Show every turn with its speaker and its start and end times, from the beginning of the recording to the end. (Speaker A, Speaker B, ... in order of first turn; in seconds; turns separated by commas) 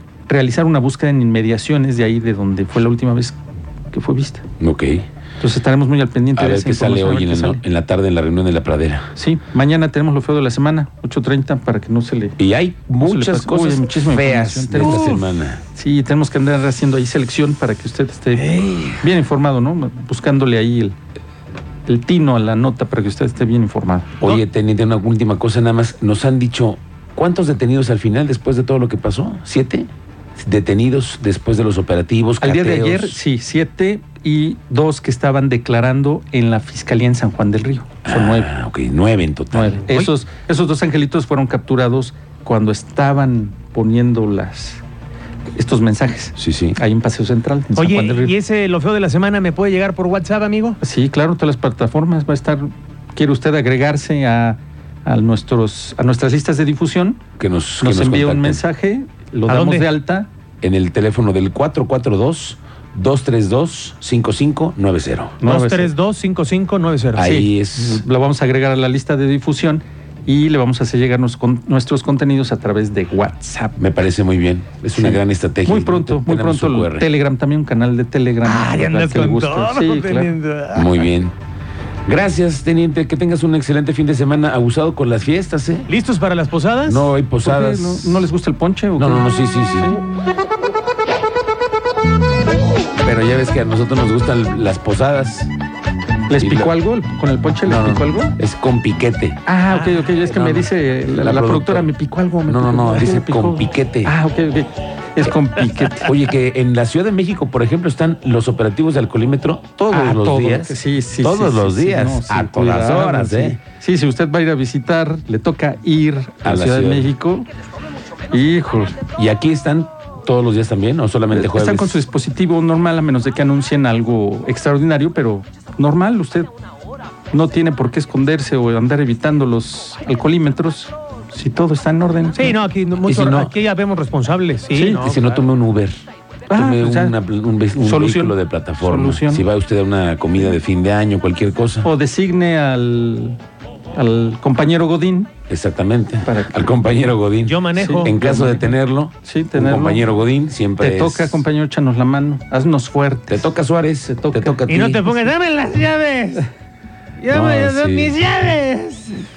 Speaker A: 0.3-3.4, Speaker A: 3.9-4.5, Speaker B: 4.6-5.1, Speaker A: 5.4-7.6, Speaker B: 6.3-9.1, Speaker A: 9.2-12.4, Speaker B: 12.4-15.6, Speaker A: 13.0-15.2, Speaker C: 14.8-15.2, Speaker A: 15.7-21.0, Speaker B: 18.4-18.9, Speaker A: 21.9-24.1, Speaker B: 24.2-33.2, Speaker A: 32.4-38.5, Speaker B: 38.1-39.9, Speaker A: 39.5-44.8, Speaker A: 45.6-48.4, Speaker B: 46.4-46.8, Speaker C: 47.8-50.8, Speaker A: 50.8-57.2, Speaker B: 57.4-58.6, Speaker A: 57.8-60.3, Speaker C: 59.5-59.9, Speaker B: 60.6-65.4, Speaker A: 65.4-65.9, Speaker C: 65.4-67.3, Speaker B: 67.1-68.0, Speaker A: 67.2-73.8, Speaker B: 73.8-77.1, Speaker A: 75.0-80.3, Speaker C: 78.4-81.1, Speaker B: 80.7-81.3, Speaker B: 82.1-85.9, Speaker C: 85.9-87.1, Speaker B: 86.8-88.2, Speaker A: 87.4-89.3, Speaker B: 89.0-90.0, Speaker B: 92.9-95.5, Speaker A: 96.3-98.3, Speaker B: 96.3-96.7, Speaker B: 97.6-99.4, Speaker A: 99.5-106.1, Speaker B: 100.2-101.9, Speaker B: 102.5-104.1, Speaker B: 106.0-113.6, Speaker A: 109.9-117.5, Speaker B: 116.4-117.1, Speaker A: 118.3-119.0, Speaker B: 119.1-122.0, Speaker A: 121.3-126.5, Speaker A: 127.3-132.6, Speaker C: 132.4-135.4, Speaker B: 133.0-133.5, Speaker A: 134.7-135.1, Speaker B: 134.9-136.0, Speaker A: 136.5-137.2, Speaker B: 136.5-141.9, Speaker A: 137.7-139.5, Speaker A: 141.8-143.4, Speaker A: 143.9-145.3, Speaker B: 145.5-151.4, Speaker A: 146.2-146.8, Speaker C: 147.4-148.2, Speaker A: 147.8-148.7, Speaker A: 149.2-150.1, Speaker A: 150.8-153.5, Speaker B: 153.3-155.3, Speaker A: 154.1-154.6, Speaker C: 154.7-156.5, Speaker C: 157.2-159.2, Speaker B: 157.3-158.2